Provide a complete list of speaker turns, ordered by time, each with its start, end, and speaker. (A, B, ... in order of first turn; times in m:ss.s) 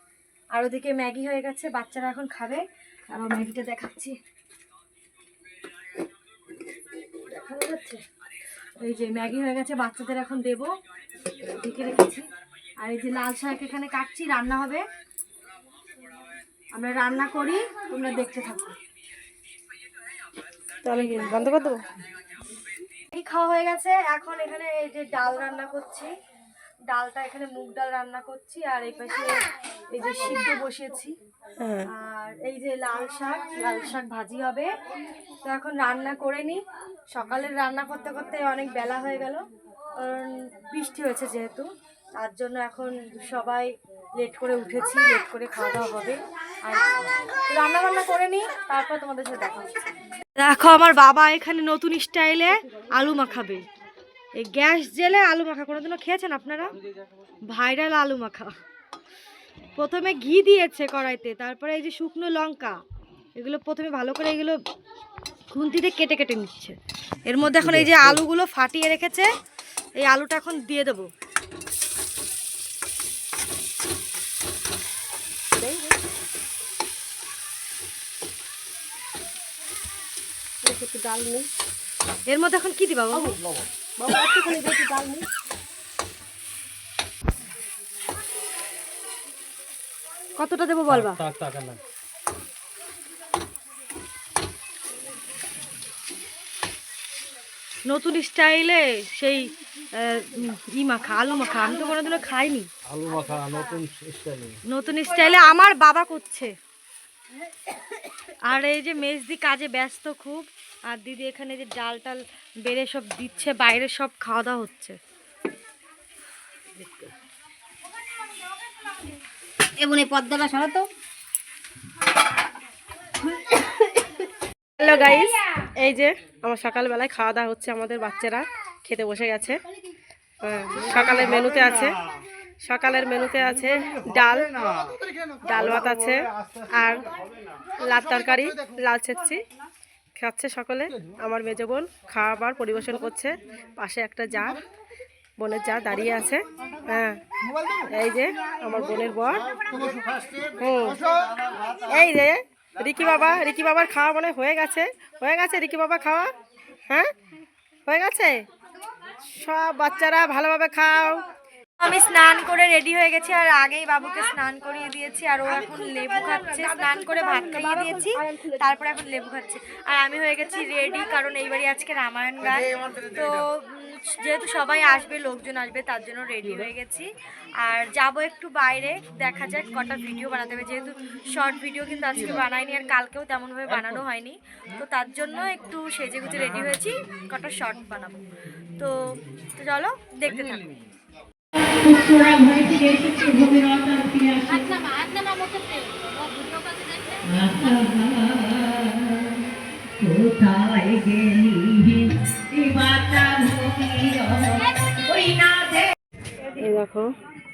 0:00.5-0:04.2 A
0:07.2-0:08.0 A
0:08.8-0:10.7 A
0:11.4-0:12.2 A
0:12.8-0:14.8 A
0:16.7-0:18.7 A
0:20.8-0:21.8 B
0:23.1-0:26.1 A
0:26.9-0:29.3 A
0:29.9-0:31.1 A
0:31.6-0:31.9 B
0:31.9-0:34.7 A
0:35.4-0:36.6 A
0:37.1-0:39.4 A
0:40.0-0:49.7 A
0:50.4-0:53.6 A
0:54.4-0:56.8 A
0:57.5-0:58.5 A
0:59.8-1:02.8 A
1:03.4-1:04.6 A
1:05.5-1:09.3 A
1:07.4-1:08.2 C
1:10.0-1:11.1 A
1:15.6-1:16.0 B
1:20.6-1:21.5 B
1:22.3-1:23.4 A
1:24.0-1:25.2 B
1:30.4-1:31.2 A
1:30.9-1:31.8 C
1:37.8-1:42.7 A
1:42.9-1:44.6 C
1:44.7-1:46.5 A
1:48.4-1:55.0 A
1:59.8-2:00.9 D
2:04.8-2:09.6 B
2:10.4-2:12.0 B
2:12.6-2:17.0 B
2:17.8-2:19.4 B
2:20.2-2:24.6 B
2:25.4-2:27.2 B
2:27.9-2:29.9 B
2:30.6-2:31.1 B
2:31.9-2:36.3 B
2:37.9-2:38.4 B
2:39.3-2:41.2 B
2:41.8-2:57.1 A
2:57.6-3:08.2 A
3:08.8-3:10.8 A
3:11.9-3:14.7 B
3:12.6-3:14.1 E
3:14.7-3:15.8 D
3:17.3-3:18.9 E
3:20.1-3:25.8 E
3:26.5-3:27.2 B